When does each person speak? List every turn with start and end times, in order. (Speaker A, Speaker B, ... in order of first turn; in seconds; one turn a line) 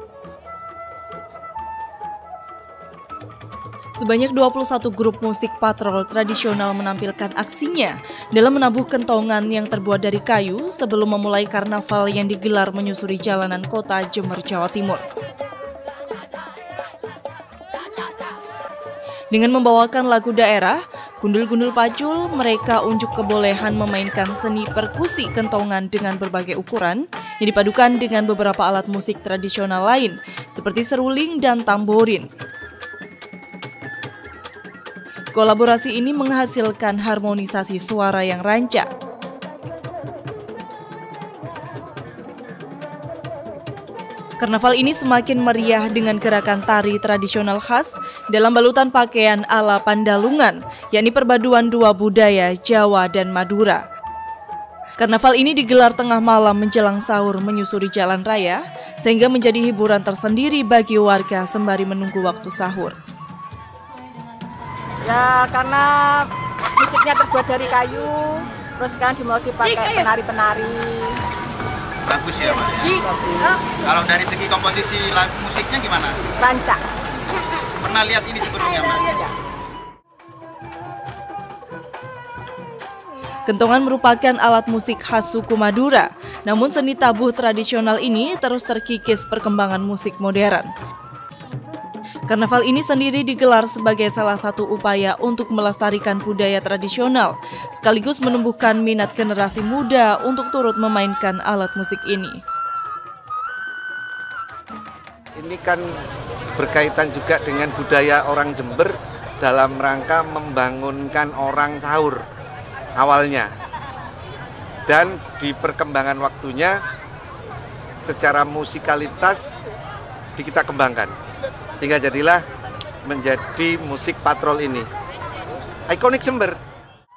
Speaker A: 4.0-15.0
Speaker A: 19.3-32.3
Speaker A: 35.3-38.9
Speaker A: 44.4-53.9
Speaker A: 55.0-63.0
Speaker B: 65.0-71.2
Speaker C: 72.0-73.0
Speaker B: 72.8-73.7
Speaker C: 73.7-76.2
Speaker B: 76.4-76.8
Speaker C: 77.8-79.1
Speaker A: 83.5-90.7
Speaker A: 92.3-102.4
Speaker D: 105.4-105.9
Speaker D: 106.6-112.2
Speaker D: 113.0-113.5
Speaker D: 114.9-116.8
Speaker D: 118.0-119.5
Speaker D: 120.4-121.1
Speaker D: 121.8-122.4
Speaker D: 123.1-124.9
Speaker D: 125.9-126.6